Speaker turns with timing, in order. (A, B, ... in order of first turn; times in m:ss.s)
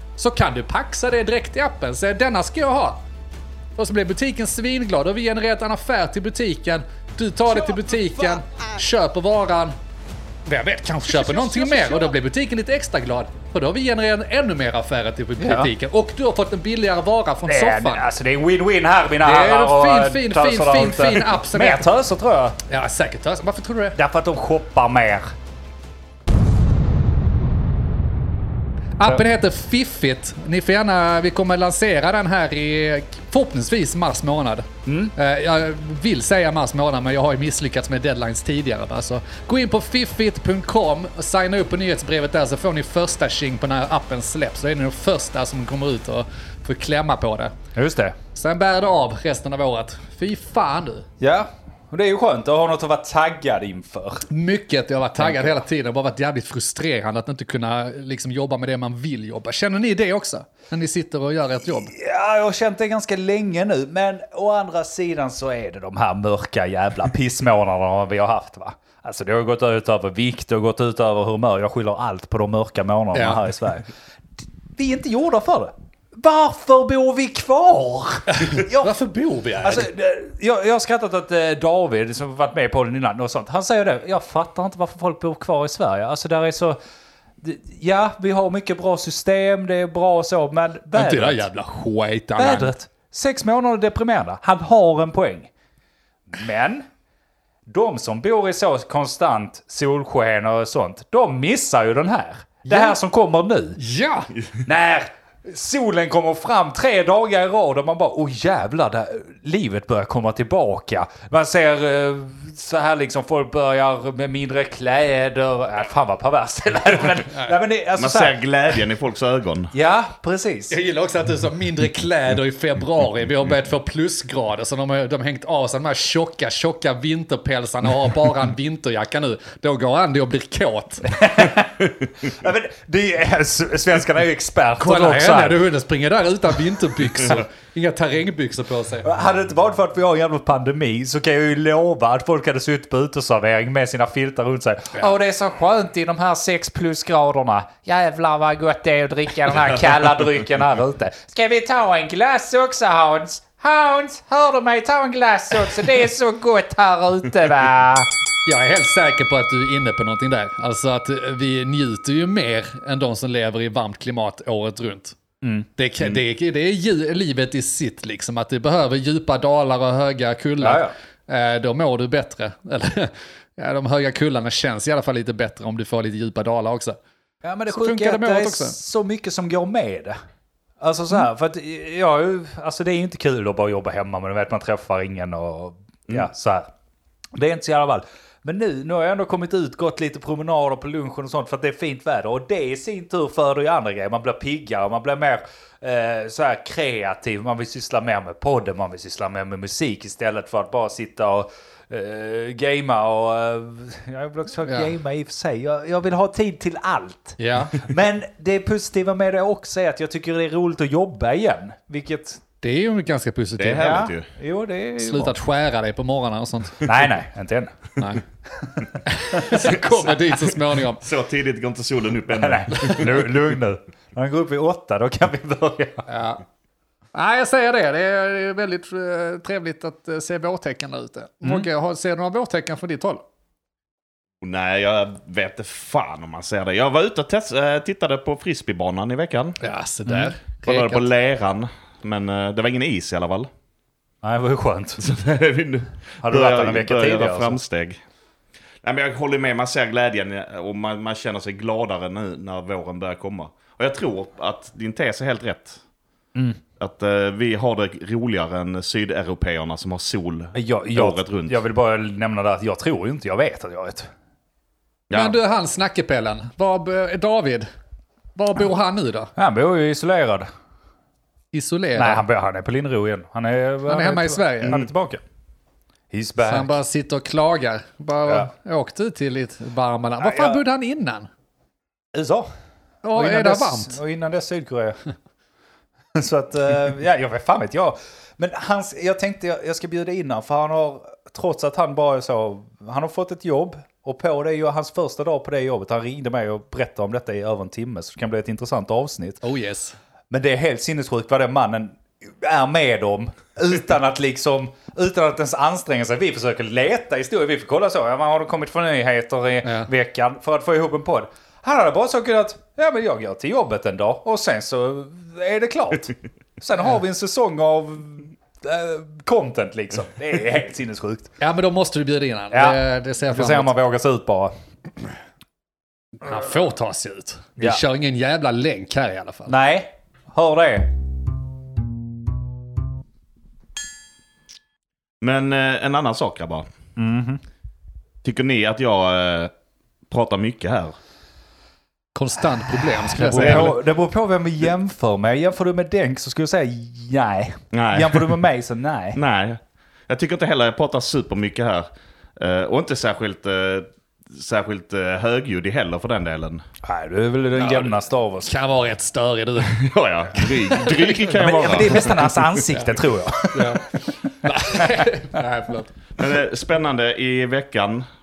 0:00.2-0:03.0 A
0:03.8-0:09.7 A
0:10.4-0:18.1 A
0:11.1-0:12.0 B
0:15.4-0:15.7 B
0:17.5-0:22.6 B
0:19.2-0:21.8 A
0:22.7-0:24.0 A
0:24.0-0:25.3 B
0:29.0-0:47.5 A
0:34.8-0:35.1 B
0:47.7-0:48.2 B
0:48.3-0:51.1 A
0:51.2-0:54.2 B
0:54.3-1:01.9 A
0:55.2-0:55.6 B
1:01.9-1:13.8 B
1:13.1-1:13.4 A
1:14.8-1:18.9 B
1:18.3-1:19.9 A
1:19.6-1:26.8 B
1:27.4-1:31.4 B
1:30.9-1:32.7 A
1:32.4-1:35.5 B
1:36.3-1:36.8 B
1:37.7-1:43.8 B
1:42.7-1:43.0 A
1:43.8-1:44.3 A
1:44.6-1:58.4 B
1:58.0-1:59.7 C
1:59.7-2:00.7 B
2:00.7-2:11.1 A
2:11.1-2:15.6 B
2:14.8-2:19.1 A
2:19.0-2:38.1 B
2:38.4-2:45.2 A
2:45.4-2:45.7 B
2:45.8-2:57.0 A
2:50.6-2:50.9 B
2:57.4-3:00.2 B
2:57.7-2:58.8 A
3:00.8-3:06.7 B
3:07.3-3:32.4 B
3:24.6-3:24.9 A
3:27.4-3:27.8 A
3:32.6-3:34.0 A
3:33.6-3:34.3 C
3:33.8-3:35.3 B
3:35.0-3:36.9 A
3:36.8-3:37.7 B
3:38.0-3:38.2 A
3:39.1-3:41.0 A
3:41.0-3:43.2 C
3:42.3-3:46.0 B
3:46.1-3:46.4 A
3:47.1-3:53.2 A
3:54.4-3:59.6 C
3:59.6-4:01.0 A
4:00.6-4:03.5 C
4:04.2-4:05.0 B
4:05.0-4:08.0 C
4:06.2-4:07.6 B
4:08.8-4:15.8 C
4:16.8-4:21.6 C
4:20.5-4:24.1 B
4:25.1-4:25.4 C
4:25.1-4:27.7 A
4:28.4-4:29.3 A
4:29.4-4:30.5 B
4:31.5-4:32.2 A
4:32.0-4:35.2 B
4:33.9-4:34.8 A
4:36.1-4:36.7 B
4:36.4-4:41.3 A
4:40.2-4:40.6 B
4:42.1-4:42.5 B
4:43.0-4:44.0 A
4:43.1-4:45.0 B
4:46.2-4:59.4 B
4:59.4-5:00.0 A
5:00.3-5:21.3 B
5:09.6-5:09.9 A
5:21.4-5:23.7 A
5:22.5-5:24.5 B
5:26.2-5:29.5 A
5:29.5-5:30.9 B
5:35.2-5:36.7 C
5:37.0-5:37.4 B
5:38.2-5:39.5 C
5:40.1-5:41.0 C
5:42.1-5:43.8 A
5:43.1-5:49.2 B
5:43.3-5:43.7 C
5:47.7-5:48.4 C
5:49.1-5:56.6 C
5:56.8-5:58.5 B
5:57.6-5:59.7 A
5:59.6-6:02.6 C
6:00.7-6:02.0 A
6:01.3-6:03.8 B
6:02.7-6:03.0 A
6:03.5-6:05.9 A
6:06.2-6:08.1 C